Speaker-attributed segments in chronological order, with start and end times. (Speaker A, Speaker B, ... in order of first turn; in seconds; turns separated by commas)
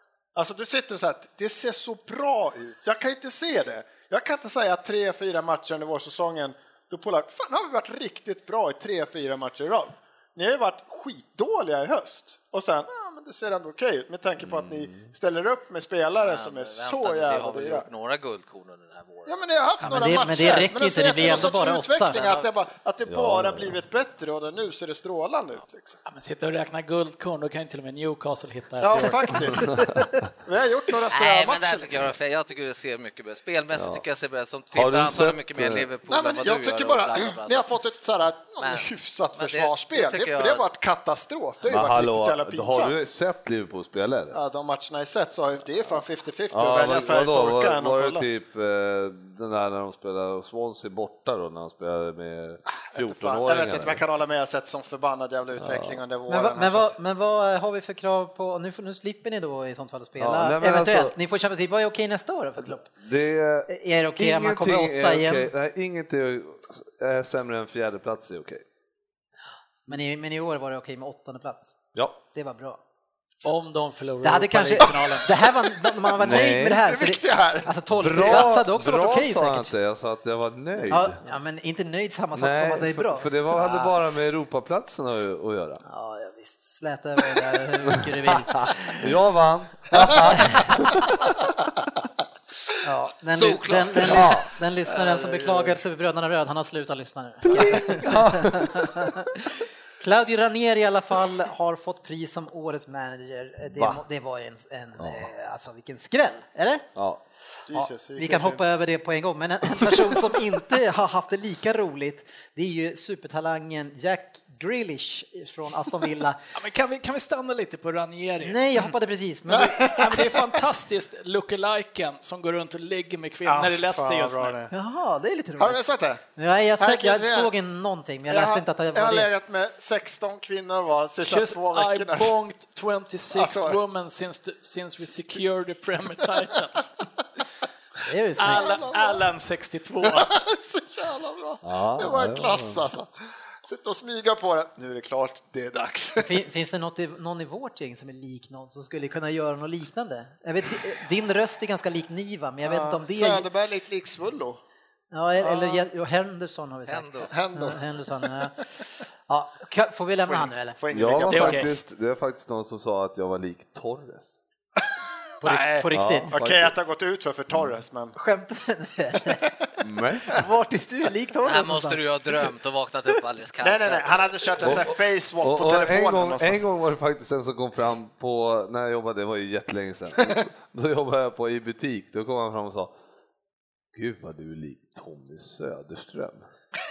Speaker A: 0.3-17.9, Speaker B: 14.4-15.1, Speaker C: 16.2-20.3, Speaker A: 19.2-26.0, Speaker D: 19.8-22.2, Speaker C: 21.2-22.5, Speaker B: 23.1-23.8, Speaker E: 26.1-29.6, Speaker A: 28.8-29.8, Speaker D: 29.6-30.2, Speaker A: 30.4-32.1, Speaker C: 31.1-37.8, Speaker B: 33.7-34.0, Speaker B: 34.7-35.9, Speaker A: 36.1-42.9, Speaker C: 38.6-40.6, Speaker B: 41.7-44.4, Speaker A: 44.3-48.2, Speaker B: 46.5-54.0, Speaker A: 52.7-56.9, Speaker B: 55.5-56.0, Speaker D: 56.3-62.9, Speaker B: 60.2-61.1, Speaker B: 62.6-68.6, Speaker D: 63.7-65.5, Speaker D: 69.9-71.8, Speaker D: 72.3-72.8, Speaker E: 73.4-75.3, Speaker D: 74.2-79.7, Speaker B: 76.2-76.8, Speaker A: 76.7-78.5, Speaker B: 78.0-81.2, Speaker D: 80.9-83.3, Speaker B: 82.3-85.8, Speaker D: 85.8-89.1, Speaker B: 88.0-91.3, Speaker D: 90.1-90.9, Speaker D: 92.8-106.9, Speaker C: 93.3-94.3, Speaker B: 94.0-94.5, Speaker A: 94.9-95.8, Speaker B: 97.5-99.1, Speaker B: 103.7-104.0, Speaker B: 105.0-105.3, Speaker B: 107.0-107.2, Speaker A: 107.7-108.6, Speaker D: 107.7-116.4, Speaker E: 116.5-118.9, Speaker D: 118.4-119.9, Speaker A: 119.5-120.4, Speaker E: 119.8-124.6, Speaker A: 123.5-124.7, Speaker D: 124.7-125.8, Speaker A: 125.6-126.2, Speaker D: 126.3-129.3, Speaker A: 126.8-127.5, Speaker A: 128.3-132.4, Speaker E: 131.2-136.9, Speaker A: 133.3-133.8, Speaker D: 138.0-138.8, Speaker E: 138.4-140.3, Speaker A: 138.4-139.3, Speaker A: 140.0-143.1, Speaker B: 141.6-142.8, Speaker A: 143.6-146.3, Speaker D: 146.2-153.5, Speaker A: 152.6-154.6, Speaker D: 155.1-160.8, Speaker A: 155.4-155.8, Speaker C: 156.9-157.3, Speaker A: 157.3-158.4, Speaker A: 160.3-161.8, Speaker B: 160.9-164.4, Speaker E: 161.3-161.7, Speaker A: 165.4-168.2, Speaker D: 165.4-166.3, Speaker B: 165.9-166.7, Speaker D: 168.1-169.5, Speaker B: 169.8-170.4, Speaker D: 170.2-172.5, Speaker C: 171.4-174.7, Speaker A: 173.6-176.6, Speaker B: 174.6-182.9, Speaker B: 183.9-186.5